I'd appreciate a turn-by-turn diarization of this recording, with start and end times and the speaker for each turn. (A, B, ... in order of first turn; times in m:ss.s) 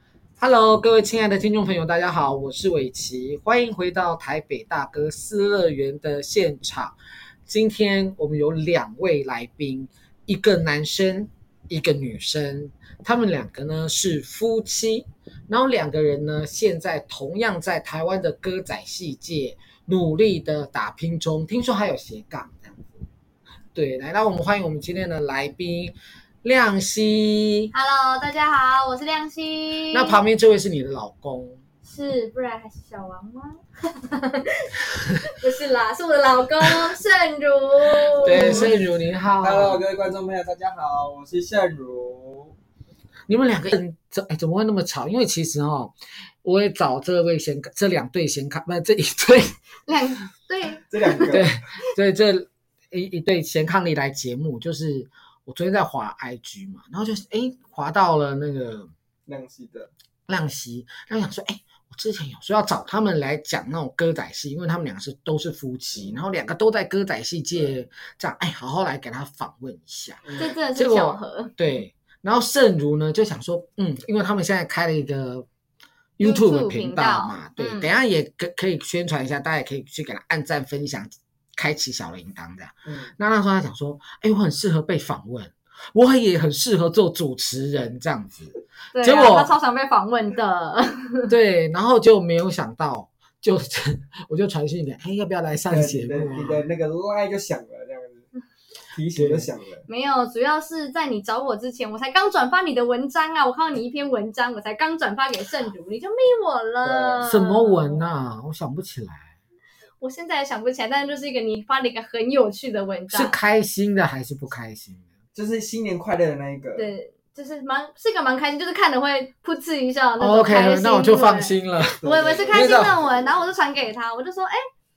0:00.4-0:06.9 A
0:07.4-0:23.0 A
0:23.7-0:27.7 A
0:27.7-0:30.2 B
0:29.9-0:31.6 A
0:31.8-0:38.7 B
0:38.2-0:39.8 A
0:38.2-0:38.8 C
0:39.4-0:42.5 C
0:43.3-0:49.6 A
0:49.8-0:51.4 B
0:50.9-0:51.5 C
0:51.3-0:58.9 A
0:59.2-0:59.9 C
1:00.3-1:15.4 A
1:10.2-1:10.5 C
1:10.4-1:11.5 B
1:16.2-1:29.5 A
1:16.2-1:17.9 B
1:22.8-1:23.1 C
1:28.9-1:31.3 B
1:31.3-1:36.6 A
1:35.7-1:38.3 C
1:38.9-1:39.8 C
1:39.1-1:39.5 A
1:39.9-1:48.1 B
1:46.8-1:47.2 C
1:47.2-1:49.3 A
1:50.0-1:53.4 B
1:53.1-1:55.1 A
1:55.3-1:56.9 C
1:56.8-2:04.6 B
2:00.2-2:03.0 A
2:02.0-2:03.2 C